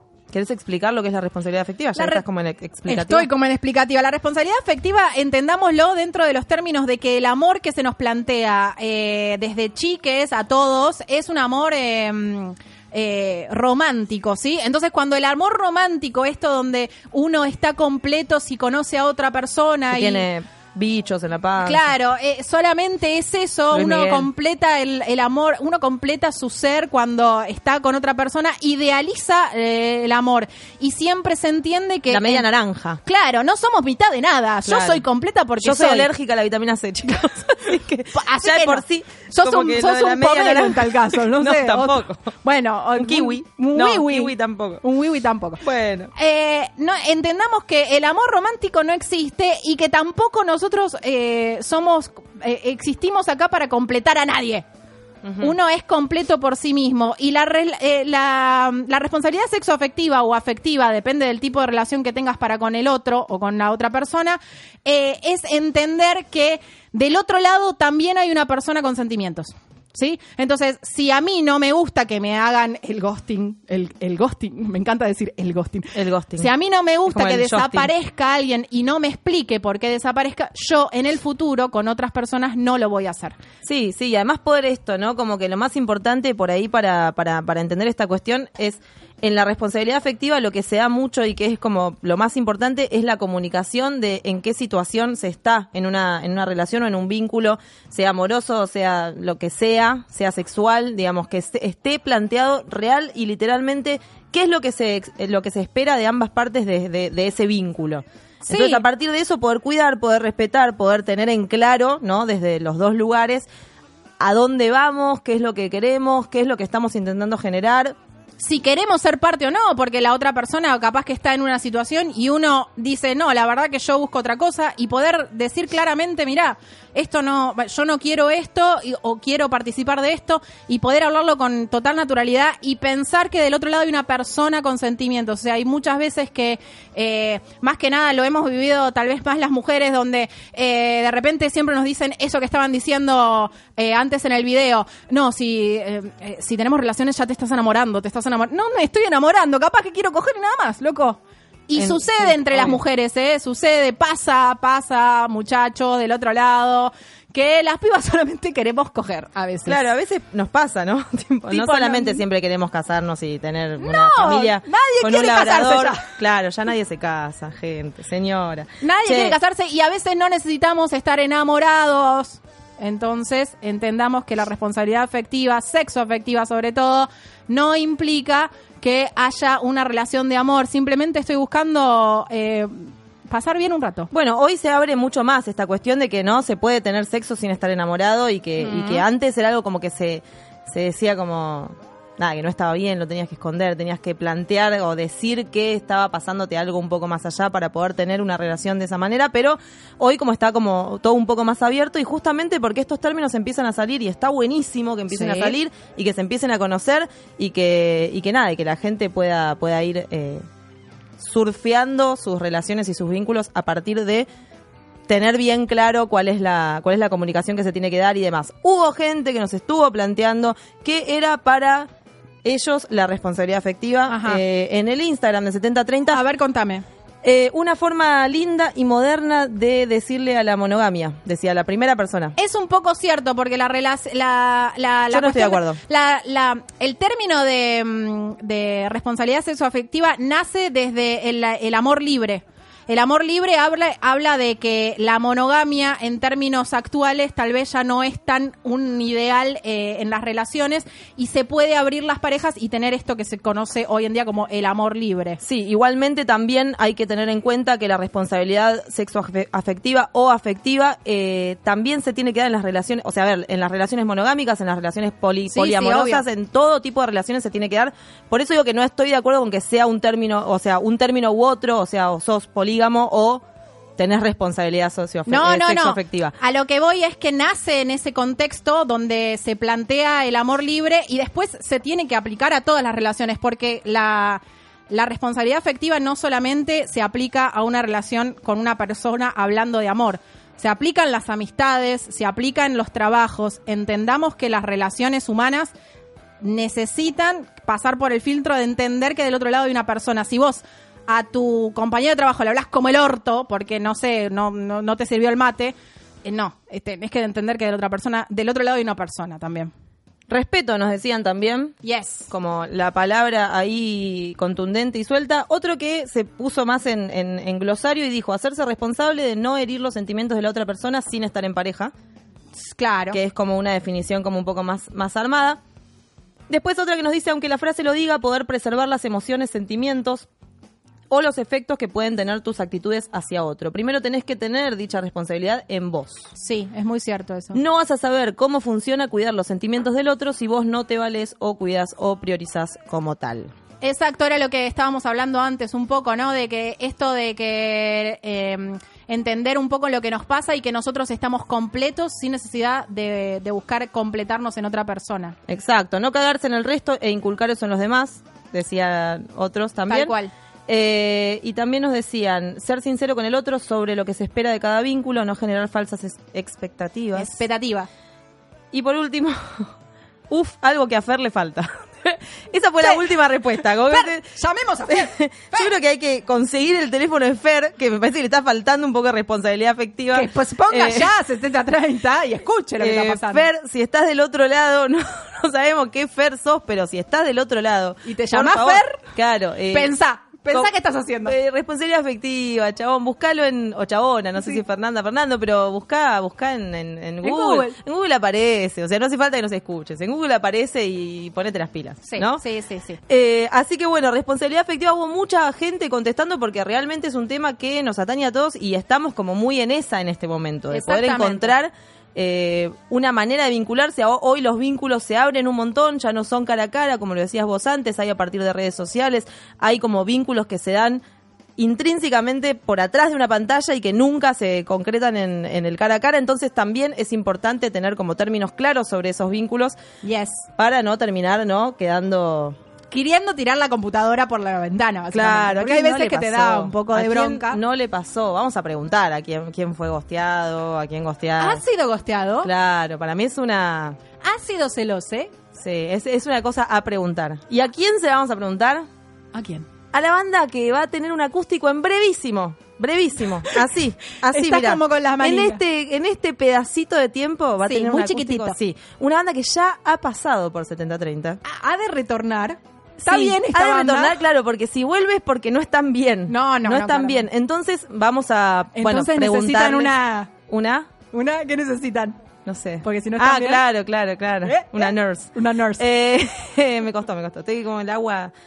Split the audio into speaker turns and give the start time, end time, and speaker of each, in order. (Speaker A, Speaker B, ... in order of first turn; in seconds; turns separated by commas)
Speaker A: 0.3-3.3, Speaker B: 2.0-2.2, Speaker B: 2.9-20.2, Speaker A: 19.9-21.9, Speaker B: 21.6-32.5, Speaker A: 23.7-24.3, Speaker A: 32.1-33.0, Speaker B: 33.0-36.1, Speaker A: 34.7-35.0, Speaker A: 35.6-42.3, Speaker B: 38.1-45.6, Speaker A: 43.0-44.8, Speaker A: 45.6-46.1, Speaker B: 46.1-54.6, Speaker A: 55.2-55.5, Speaker B: 55.4-83.4, Speaker A: 75.9-76.5, Speaker A: 77.1-77.9, Speaker A: 83.7-113.5, Speaker B: 108.5-108.8, Speaker A: 114.2-118.0, Speaker B: 118.4-159.9, Speaker A: 151.8-152.8, Speaker A: 159.7-169.4, Speaker B: 161.5-162.2, Speaker B: 163.8-166.1, Speaker B: 168.8-184.1, Speaker A: 184.1-210.4, Speaker B: 188.6-189.0, Speaker B: 205.1-205.6, Speaker A: 211.2-214.3, Speaker A: 215.1-221.9, Speaker A: 222.4-226.2, Speaker B: 224.1-224.4, Speaker B: 226.1-226.8, Speaker A: 227.2-232.4, Speaker B: 232.4-255.4, Speaker A: 235.1-235.8, Speaker A: 255.4-273.4, Speaker B: 265.5-266.2, Speaker A: 274.0-276.4, Speaker B: 275.3-295.7, Speaker B: 296.4-309.7, Speaker A: 310.3-311.8, Speaker B: 311.8-312.3, Speaker A: 312.3-321.9, Speaker B: 322.6-323.2, Speaker A: 323.1-325.6, Speaker A: 326.5-330.3, Speaker A: 331.1-336.3, Speaker B: 336.4-337.6, Speaker A: 337.5-343.5, Speaker B: 343.8-355.4, Speaker A: 355.5-360.1, Speaker B: 359.9-360.3, Speaker A: 360.7-367.4, Speaker B: 367.1-367.9, Speaker A: 368.7-369.7, Speaker A: 370.3-374.3, Speaker B: 372.8-373.1, Speaker B: 373.6-375.7, Speaker A: 374.9-381.1, Speaker B: 380.1-383.5, Speaker A: 382.8-389.9, Speaker B: 388.1-389.0, Speaker B: 389.7-391.4, Speaker A: 391.2-402.4, Speaker B: 397.2-397.8, Speaker B: 402.0-403.0, Speaker A: 403.1-421.0, Speaker B: 410.7-411.5, Speaker A: 421.6-429.8, Speaker B: 430.0-430.5, Speaker A: 430.6-432.6, Speaker B: 432.9-437.6, Speaker A: 435.1-441.6, Speaker B: 441.4-442.5, Speaker A: 442.4-444.0, Speaker B: 444.2-445.3, Speaker A: 445.5-448.9, Speaker B: 449.3-449.7, Speaker A: 449.9-461.4, Speaker B: 454.2-455.6, Speaker B: 457.6-458.6, Speaker B: 461.4-464.2, Speaker A: 463.0-470.0, Speaker B: 466.3-467.3, Speaker B: 468.8-470.3, Speaker A: 470.5-470.9, Speaker B: 471.1-472.2, Speaker A: 472.4-478.3, Speaker B: 472.8-473.6, Speaker B: 474.4-475.8